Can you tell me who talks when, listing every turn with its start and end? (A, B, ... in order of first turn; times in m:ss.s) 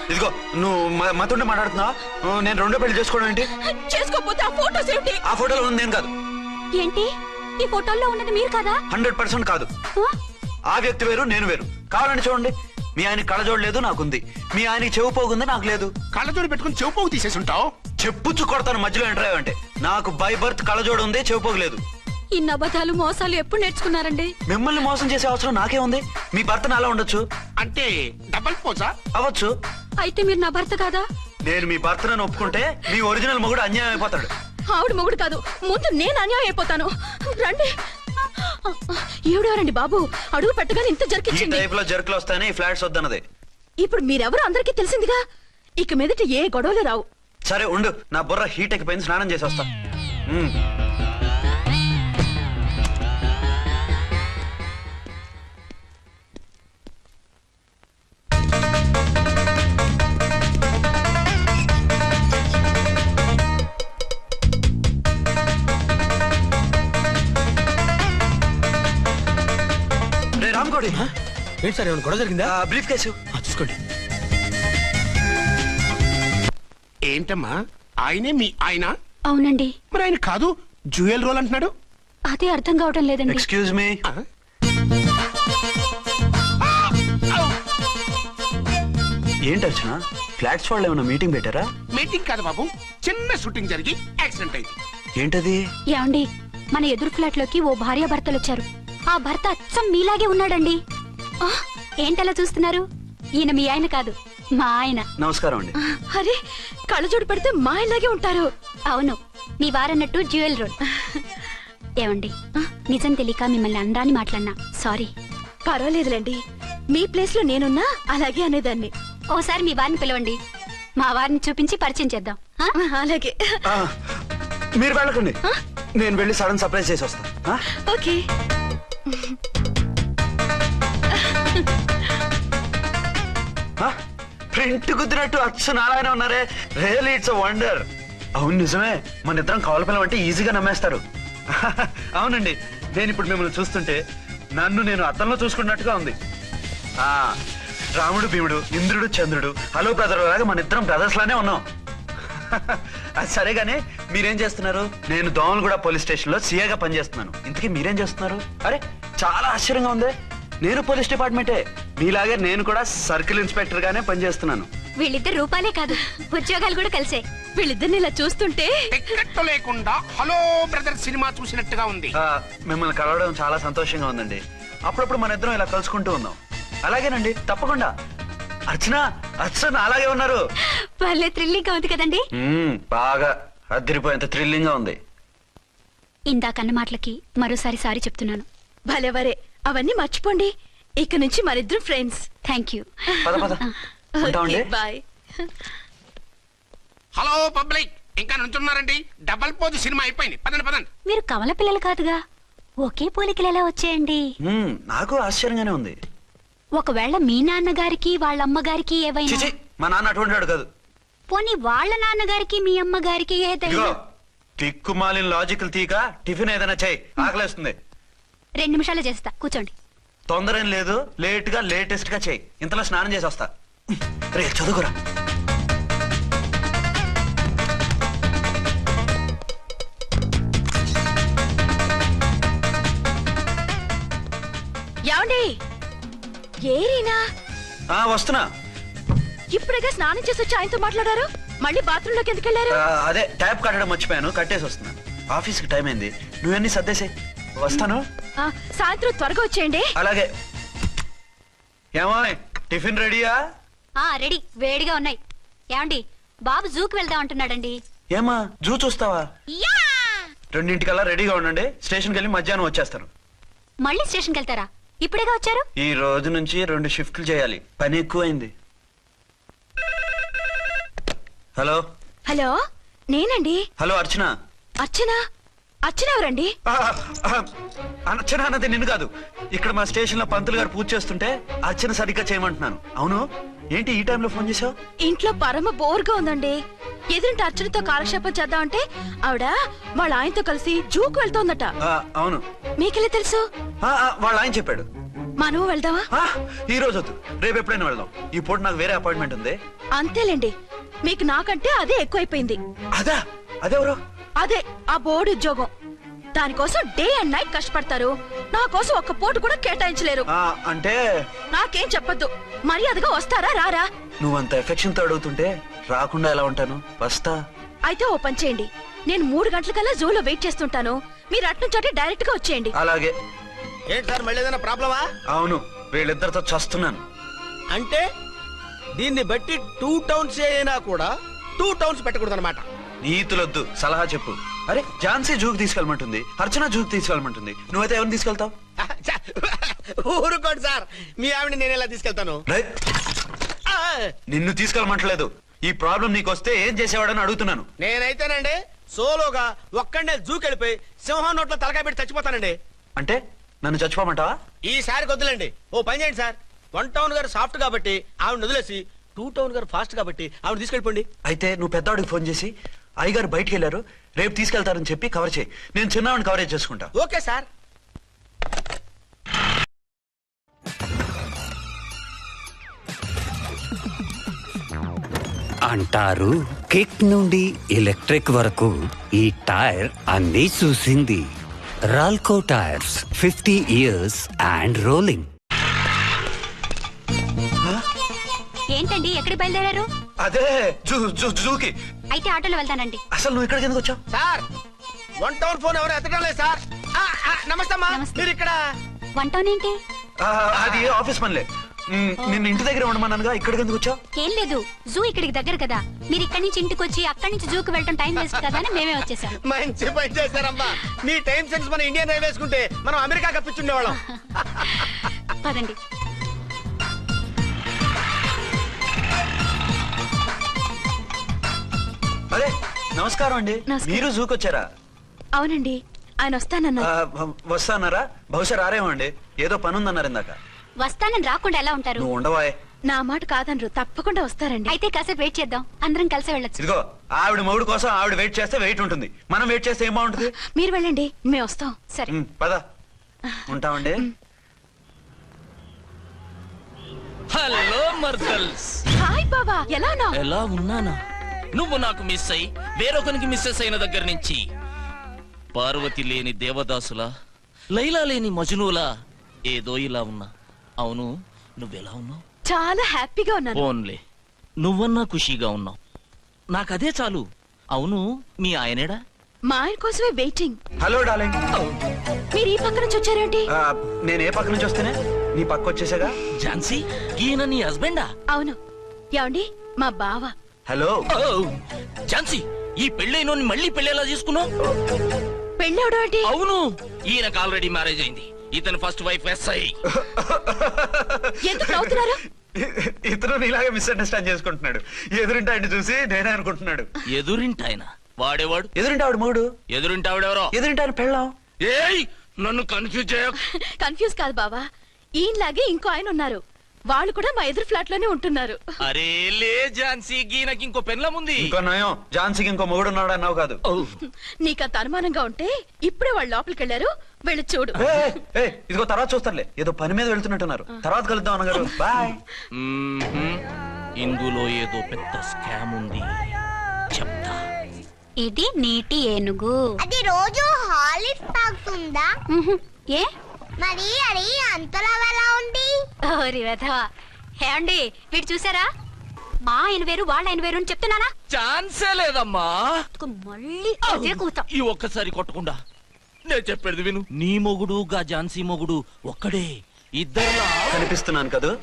0:00.1-0:03.5 A
0:03.6-0:05.2 B
0:05.2-0:06.1 A
0:06.8-0:07.1 C
0:07.6-0:08.8 C
0:08.9-0:09.7 A
0:10.7-0:15.9 A
0:16.1-0:17.7 D
0:18.0-0:21.8 A
0:22.3-0:24.3 C
0:24.5-0:27.2 A
0:27.6-0:28.9 D
0:29.1-0:29.5 A
0:30.0-0:31.0 C
0:31.4-0:34.3 A
0:34.7-0:37.7 B
0:38.7-0:41.6 B
0:41.3-0:43.2 A
0:43.8-0:45.2 B
0:45.8-0:47.0 B
0:47.4-0:49.7 A
0:50.3-0:50.5 A
1:10.4-1:11.1 A
1:11.6-1:12.5 E
1:12.4-1:13.2 A
1:13.3-1:13.8 E
1:17.1-1:18.9 D
1:19.3-1:19.7 C
1:19.9-1:21.7 D
1:22.3-1:23.4 C
1:23.3-1:24.0 A
1:26.8-1:27.5 D
1:29.4-1:31.7 A
1:31.9-1:34.7 D
1:35.2-1:35.6 A
1:35.9-1:40.8 C
1:41.4-1:42.9 C
1:43.4-1:45.1 C
1:45.2-1:45.7 A
1:45.8-1:48.5 B
1:48.9-1:50.8 C
1:52.0-1:52.3 C
1:52.9-1:55.1 C
1:55.6-1:56.4 B
1:56.9-1:58.9 B
1:59.3-2:00.4 C
2:01.0-2:02.7 C
2:02.8-2:03.6 B
2:03.6-2:04.0 A
2:04.8-2:05.4 A
2:06.0-2:07.6 A
2:07.8-2:08.2 B
2:09.1-2:09.4 B
2:11.1-2:11.7 B
2:14.5-2:24.0 A
2:24.6-2:26.2 A
2:27.0-2:27.4 A
2:28.0-2:31.6 A
2:32.3-2:44.7 A
2:45.0-2:47.2 C
2:47.6-2:48.8 B
2:48.9-2:52.1 D
2:52.2-2:57.9 A
2:58.7-3:00.4 A
3:01.0-3:02.3 C
3:02.4-3:05.0 A
3:06.3-3:08.4 C
3:08.9-3:12.2 B
3:12.4-3:13.8 C
3:13.2-3:13.4 B
3:13.2-3:13.6 A
3:14.2-3:14.7 A
3:14.2-3:15.6 B
3:17.2-3:20.9 D
3:21.1-3:22.2 C
3:22.8-3:24.2 C
3:24.4-3:26.0 A
3:26.8-3:29.5 C
3:29.3-3:30.7 A
3:31.3-3:33.9 C
3:33.6-3:33.9 A
3:34.6-3:37.8 A
3:38.6-3:39.7 C
3:40.3-3:44.9 A
3:55.1-3:55.5 B
3:56.7-3:57.2 B
3:57.9-3:58.5 A
3:59.5-4:02.8 B
4:02.7-4:08.0 A
4:08.4-4:09.9 B
4:10.0-4:10.3 A
4:12.0-4:13.3 A
4:14.0-4:15.2 C
4:15.7-4:17.7 C
4:18.1-4:19.2 A
4:19.6-4:20.1 F
4:20.5-4:23.1 A
4:23.8-4:25.6 C
4:25.8-4:28.5 A
4:31.6-4:31.8 A
4:32.3-4:32.6 B
4:33.1-4:33.6 B
4:33.8-4:34.3 A
4:34.8-4:35.2 B
4:35.8-4:36.5 B
4:36.7-4:37.5 A
4:38.1-4:44.7 A
4:45.0-4:46.6 B
4:47.1-4:51.7 B
4:51.8-4:52.4 A
4:52.8-4:53.4 B
4:53.8-4:54.9 A
4:55.4-4:56.1 B
4:56.1-4:59.6 A
5:00.0-5:00.5 B
5:01.0-5:02.6 B
5:02.9-5:04.0 A
5:04.4-5:05.7 B
5:06.4-5:10.2 B
5:10.3-5:11.0 A
5:11.5-5:13.8 B
5:14.2-5:17.4 A
5:17.9-5:22.7 B
5:22.7-5:23.2 A
5:23.9-5:25.0 E
5:25.3-5:27.0 A
5:27.7-5:28.0 E
5:29.0-5:32.6 E
5:33.0-5:38.5 A
5:38.8-5:42.4 E
5:43.7-5:44.1 E
5:44.3-5:47.6 A
5:47.8-5:52.6 E
5:53.0-5:54.4 A
5:54.6-6:01.0 E
6:01.2-6:06.9 A
6:07.0-6:07.4 E
6:15.6-6:21.3 G
6:21.8-6:25.3 G
6:28.7-6:29.8 C
6:30.2-6:31.7 A
6:32.1-6:33.0 C
6:33.1-6:34.0 A
6:34.1-6:34.4 E
6:35.2-6:38.6 E
6:37.9-6:38.2 C
6:39.2-6:39.8 C
6:40.2-6:44.0 A
6:40.5-6:40.9 E
6:44.2-6:49.4 C
6:49.4-6:55.0 E
6:55.4-6:55.7 C
7:02.3-7:04.6 A
7:03.7-7:04.1 B
7:05.4-7:06.9 B
7:06.8-7:10.4 A
7:10.8-7:12.1 C
7:12.0-7:12.6 A
7:12.9-7:14.7 B
7:14.7-7:16.6 C
7:16.6-7:20.3 A
7:20.4-7:21.8 B
7:22.1-7:22.6 A
7:23.5-7:24.0 A
7:27.3-7:28.8 H
7:29.0-7:30.2 B
7:30.2-7:31.0 H
7:31.5-7:34.4 H
7:35.5-7:37.1 H
7:37.7-7:38.9 H
7:39.5-7:40.3 H
7:40.8-7:42.2 H
7:42.4-7:43.6 B
7:43.6-7:44.0 H
7:44.6-7:45.8 H
7:46.5-7:49.0 H
7:49.5-7:50.6 B
7:50.8-7:51.4 A
7:52.3-7:53.5 B
7:53.5-7:56.2 A
7:56.4-7:58.1 H
7:58.3-7:58.6 B
7:59.1-8:00.3 B
8:00.7-8:01.0 A
8:01.1-8:01.5 H
8:02.1-8:04.5 H
8:05.6-8:06.3 B
8:06.2-8:09.7 H
8:09.9-8:16.9 A
8:11.4-8:12.2 B
8:17.1-8:18.7 H
8:18.8-8:19.5 A
8:19.7-8:20.5 H
8:20.5-8:21.3 A
8:21.6-8:23.4 H
8:23.4-8:24.6 B
8:25.2-8:28.6 B
8:28.8-8:31.5 H
8:31.4-8:33.6 A
8:33.7-8:34.0 H
8:34.0-8:37.8 B
8:37.8-8:42.2 A
8:42.5-8:43.4 H
8:44.0-8:46.2 H
8:46.9-8:47.4 H
8:48.2-8:49.6 C
8:49.8-8:52.1 F
8:52.3-8:53.1 C
8:53.6-8:55.8 F
8:56.0-8:56.8 C
8:57.4-8:58.7 C
8:59.4-9:01.1 C
9:01.3-9:02.8 H
9:03.0-9:04.5 C
9:03.8-9:05.6 H
9:06.3-9:10.9 H
9:10.7-9:11.5 A